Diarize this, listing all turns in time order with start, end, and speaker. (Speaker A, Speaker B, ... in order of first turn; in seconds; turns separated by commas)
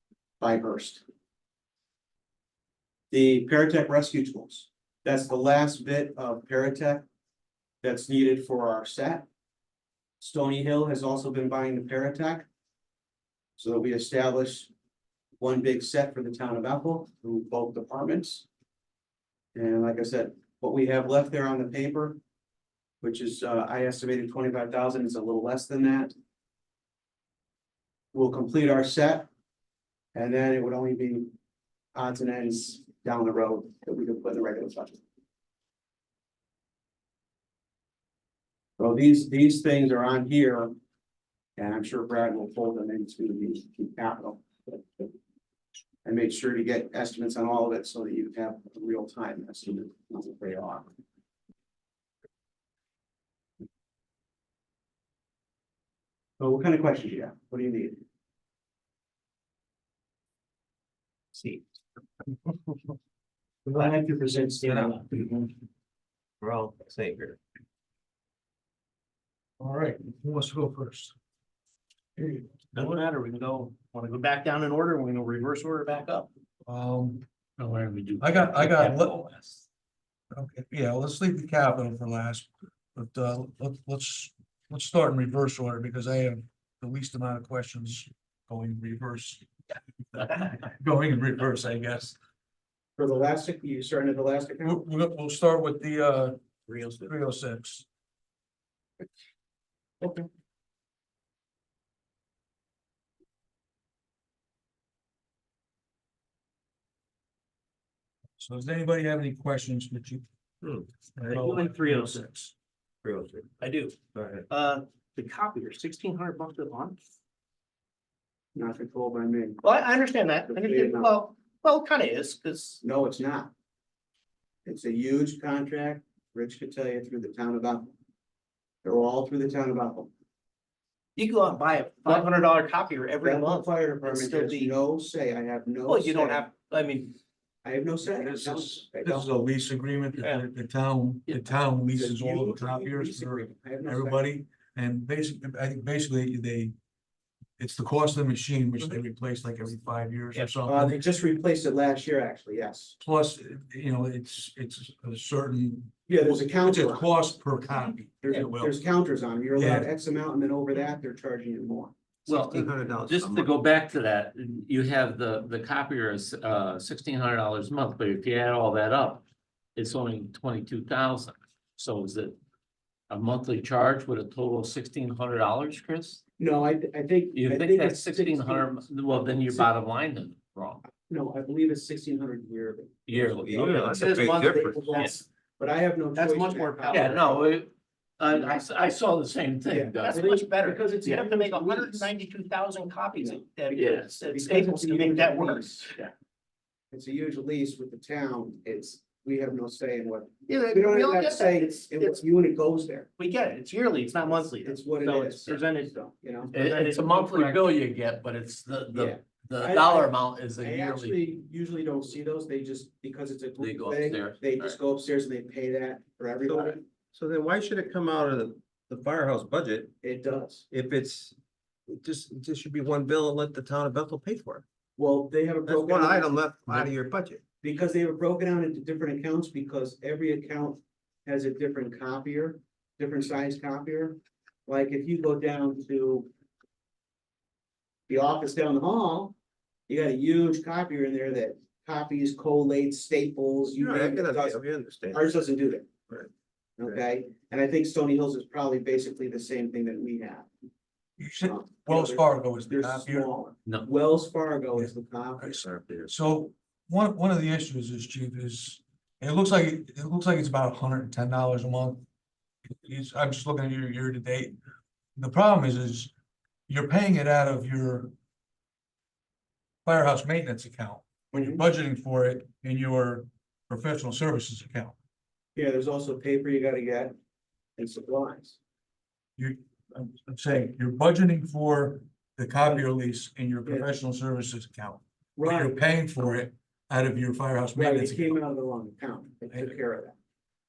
Speaker A: 0.4-1.0, Speaker A: 3.1-7.0, Speaker A: 7.8-9.3, Speaker A: 10.2-12.5, Speaker A: 13.6-14.7, Speaker A: 15.4-18.4, Speaker A: 19.5-22.2, Speaker A: 23.0-26.1, Speaker A: 28.1-29.3, Speaker A: 30.1-31.3, Speaker A: 31.9-35.0, Speaker A: 38.8-40.7, Speaker A: 41.6-45.1, Speaker A: 46.0-50.9, Speaker A: 56.4-58.0, Speaker B: 63.7-65.0, Speaker A: 63.8-64.9, Speaker C: 66.4-67.4, Speaker D: 69.6-71.1, Speaker B: 72.4-76.3, Speaker D: 76.7-77.2, Speaker E: 77.6-79.6, Speaker D: 78.2-79.1, Speaker D: 80.3-89.5, Speaker D: 90.1-92.2, Speaker A: 93.0-94.8, Speaker D: 94.6-97.8, Speaker D: 108.4-110.2, Speaker C: 110.6-110.9, Speaker D: 111.2-112.5, Speaker B: 111.2-112.3, Speaker C: 113.0-113.6, Speaker B: 113.6-117.0, Speaker C: 114.1-114.5, Speaker A: 118.5-119.6, Speaker B: 119.6-122.8, Speaker A: 120.5-121.2, Speaker A: 122.8-123.5, Speaker A: 124.6-127.9, Speaker A: 128.8-130.1, Speaker B: 131.2-134.7, Speaker A: 133.2-136.5, Speaker B: 135.8-137.2, Speaker A: 137.6-139.3, Speaker D: 138.1-146.7, Speaker A: 141.9-144.2, Speaker D: 147.6-151.0, Speaker A: 150.7-153.0, Speaker D: 153.0-158.8, Speaker A: 156.1-157.1, Speaker A: 158.2-161.9, Speaker D: 159.5-159.9, Speaker C: 162.3-163.6, Speaker E: 162.3-169.2, Speaker E: 169.8-172.4, Speaker E: 173.1-176.2, Speaker A: 176.4-179.7, Speaker E: 177.3-180.8, Speaker A: 181.0-183.7, Speaker E: 183.1-184.2, Speaker C: 183.4-184.8, Speaker B: 183.8-185.2, Speaker A: 184.3-187.5, Speaker B: 186.2-187.3, Speaker E: 186.9-190.3, Speaker A: 189.7-192.1, Speaker B: 190.0-196.1, Speaker A: 193.2-195.8, Speaker E: 193.7-194.1, Speaker A: 196.9-203.1, Speaker B: 200.5-202.2, Speaker B: 203.2-205.9, Speaker A: 204.2-206.5, Speaker B: 206.5-207.7, Speaker E: 206.5-211.2, Speaker A: 208.9-216.8, Speaker E: 213.6-214.8, Speaker C: 216.4-219.9, Speaker A: 220.0-220.7, Speaker C: 220.7-221.3, Speaker C: 221.9-224.6, Speaker A: 225.0-226.9, Speaker C: 225.7-227.4, Speaker A: 227.6-236.3, Speaker A: 238.1-239.3, Speaker A: 239.9-245.9, Speaker C: 243.8-245.3, Speaker A: 246.8-250.5, Speaker D: 251.2-253.3, Speaker A: 251.4-255.6, Speaker D: 254.8-262.0, Speaker C: 255.7-256.1, Speaker D: 262.8-264.6, Speaker D: 265.2-266.1, Speaker D: 266.7-268.1, Speaker D: 269.8-274.9, Speaker A: 271.3-271.6, Speaker A: 275.5-277.1, Speaker A: 277.8-278.6, Speaker D: 279.4-288.4, Speaker A: 285.4-286.4, Speaker A: 287.7-290.1